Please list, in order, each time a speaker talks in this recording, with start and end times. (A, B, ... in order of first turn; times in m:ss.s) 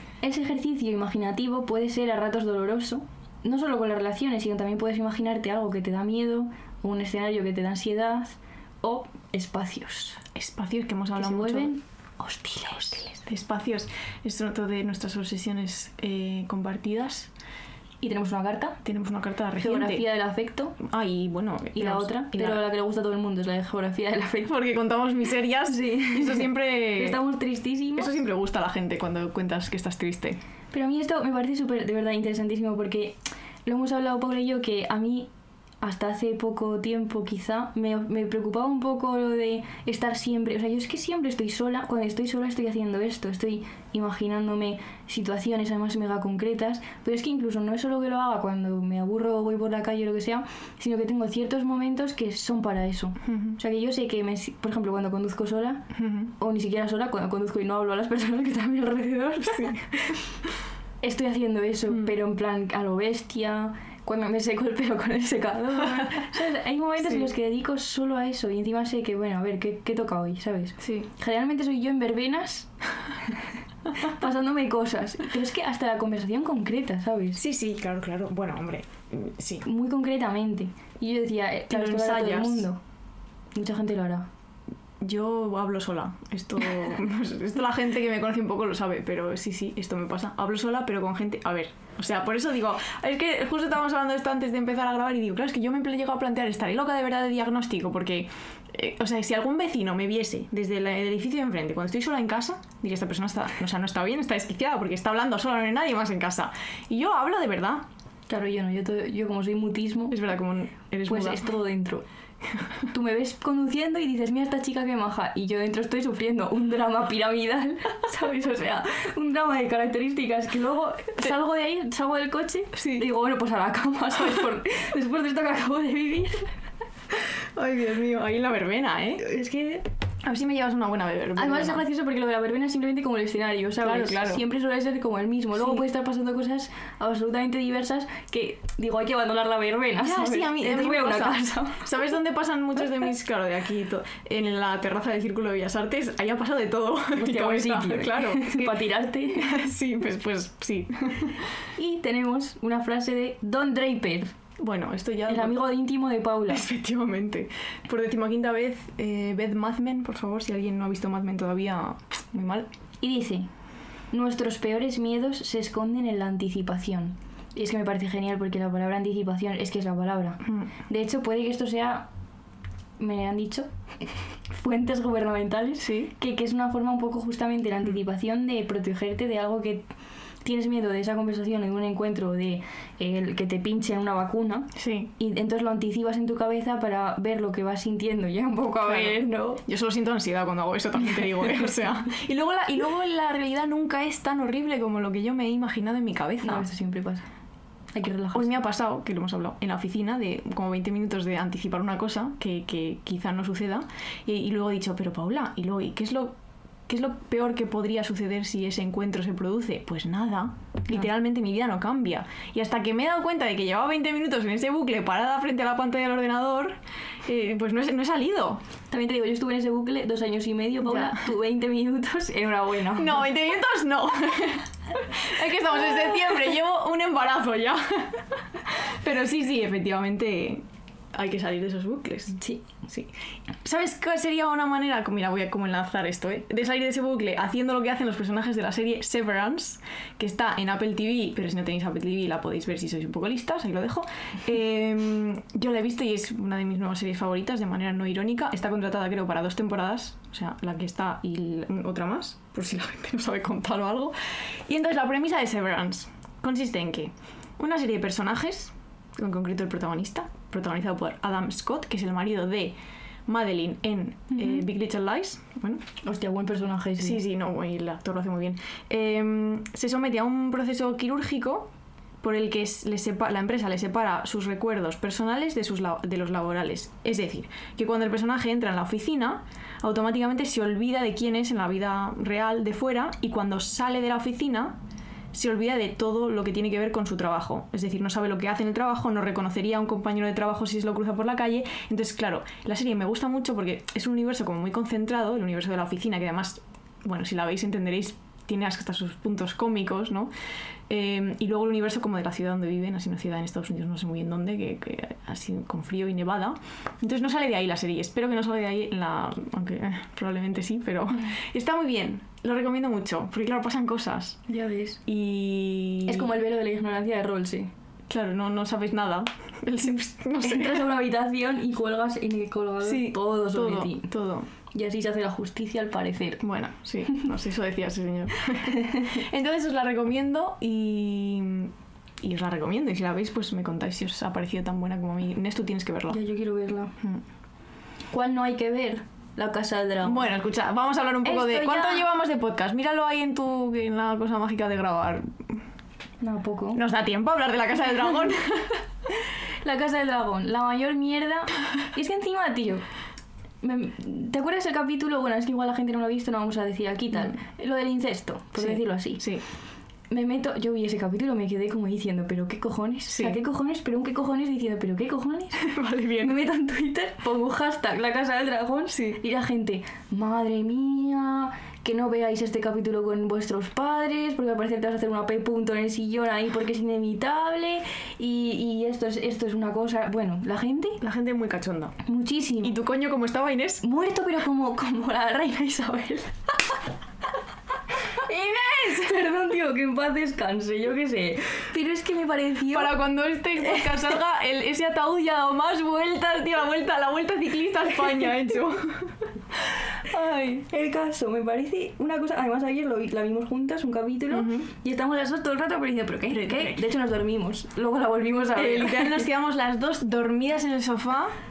0:00.2-0:10.2 A
0:10.4-0:11.7 B
0:11.2-0:13.1 A
0:13.0-0:17.3 B
0:18.0-0:18.8 A
0:18.8-0:20.1 B
0:19.6-0:20.8 A
0:20.8-0:22.6 B
0:21.8-0:24.5 A
0:24.4-0:27.2 B
0:25.7-0:28.2 A
0:28.0-0:30.4 B
0:30.7-0:35.3 A
0:35.8-0:55.9 A
0:53.2-0:53.6 B
0:56.0-0:56.3 B
0:56.4-1:00.1 A
0:59.5-0:59.8 B
1:01.0-1:12.7 A
1:07.0-1:07.3 B
1:10.8-1:11.1 B
1:14.0-1:17.4 A
1:17.4-1:19.7 B
1:19.6-1:22.8 A
1:21.7-1:22.7 B
1:23.5-1:24.3 A
1:25.0-1:47.9 B
1:48.3-1:50.2 A
1:50.1-1:51.4 B
1:51.1-1:52.0 A
1:52.9-2:06.6 A
2:02.8-2:03.1 B
2:07.6-2:09.2 B
2:09.2-2:09.9 A
2:10.2-2:11.8 B
2:11.4-2:21.8 A
2:13.8-2:14.4 B
2:15.6-2:15.8 B
2:20.0-2:31.5 B
2:27.1-2:29.6 A
2:31.8-2:34.4 A
2:34.6-2:35.6 B
2:35.3-2:36.6 A
2:36.5-2:42.7 B
2:43.0-2:43.5 A
2:44.1-2:52.1 A
2:53.0-2:59.8 A
2:55.8-2:56.1 B
3:00.4-3:09.6 A
3:04.8-3:05.1 B
3:08.8-3:16.7 B
3:16.4-3:17.2 A
3:17.9-3:18.6 A
3:18.3-3:26.4 B
3:26.9-3:38.6 B
3:38.9-3:43.3 A
3:40.8-3:41.2 B
3:43.0-4:14.1 B
3:52.3-3:52.7 A
4:14.7-4:22.8 B
4:23.3-4:25.8 B
4:26.0-4:27.2 A
4:27.0-4:44.8 B
4:45.3-5:00.3 B
5:00.9-5:14.5 B
5:14.5-5:15.0 A
5:15.0-5:16.3 B
5:16.1-5:17.7 A
5:18.1-5:20.9 B
5:20.4-5:24.1 A
5:22.8-5:24.5 B
5:24.7-5:26.4 A
5:26.4-5:36.2 B
5:28.7-5:29.2 A
5:36.1-5:37.0 A
5:38.1-5:40.3 A
5:40.0-5:45.6 B
5:41.2-5:42.1 A
5:46.2-5:46.8 A
5:46.7-5:48.8 B
5:49.6-5:52.9 A
5:53.6-5:59.3 A
5:58.6-5:59.4 B
6:00.1-6:05.6 A
6:03.1-6:03.4 B
6:05.6-6:06.4 B
6:06.2-6:21.0 A
6:08.9-6:09.2 B
6:21.0-6:22.0 B
6:22.0-6:22.8 A
6:22.6-6:23.8 B
6:23.8-6:26.3 A
6:28.1-6:33.0 A
6:32.7-6:39.2 B
6:33.6-6:34.1 A
6:40.1-6:49.3 A
6:44.3-6:44.7 B
6:46.3-6:46.8 B
6:48.6-6:51.4 B